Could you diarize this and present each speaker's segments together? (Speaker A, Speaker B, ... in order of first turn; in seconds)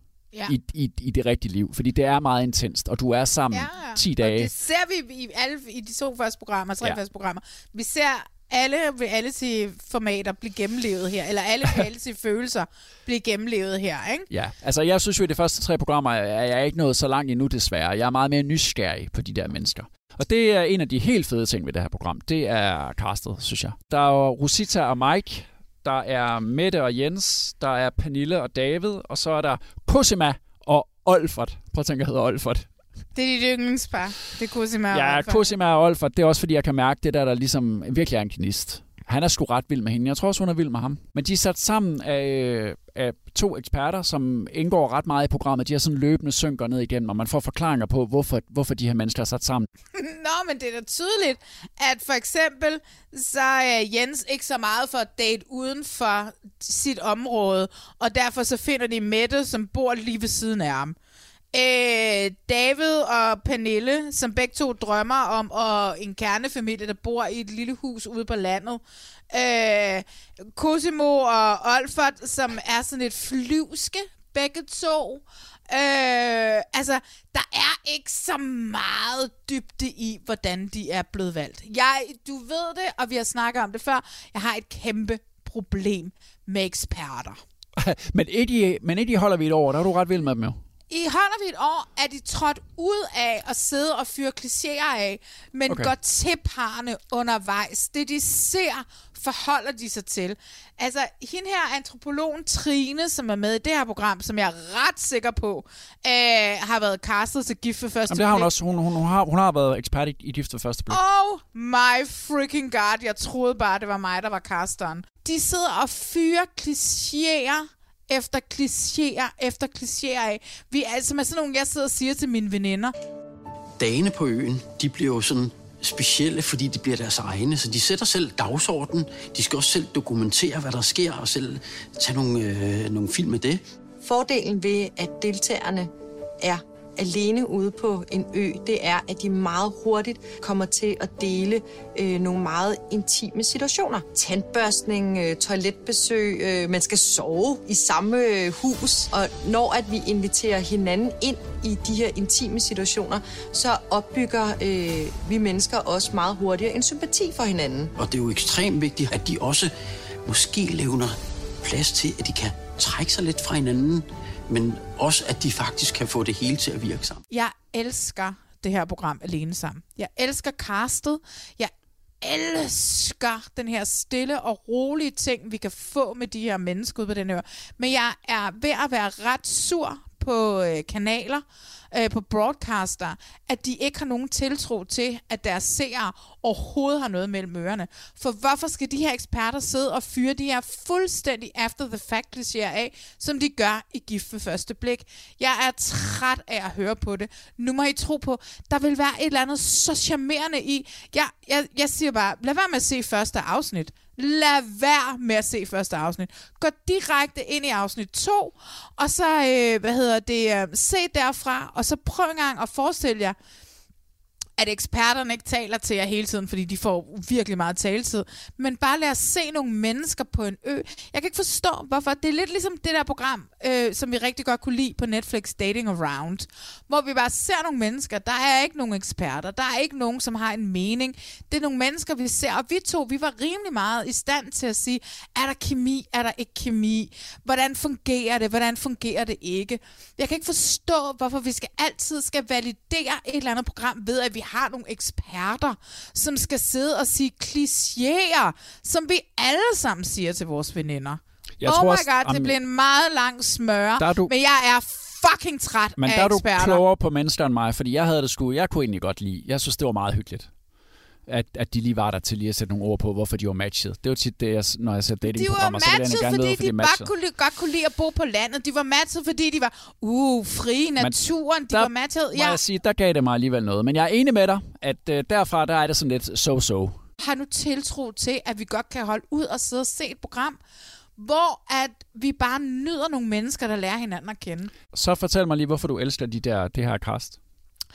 Speaker A: 0.5-4.5, 14.3-32.7, 34.9-49.7, 87.8-90.6, 108.1-111.0, 251.6-252.5, 254.0-254.3, 256.0-260.5, 261.3-267.1, 271.7-277.0, 284.9-287.4
Speaker B: 3.5-14.3, 33.1-35.5, 49.9-61.0, 61.5-70.0, 70.5-87.4, 90.9-108.5, 110.9-122.9, 167.3-171.7, 172.2-213.3, 214.6-256.8, 265.2-272.6, 277.2-280.6, 281.2-284.7
Speaker C: 123.8-133.6, 158.0-159.7, 160.2-167.2
Speaker D: 134.0-157.9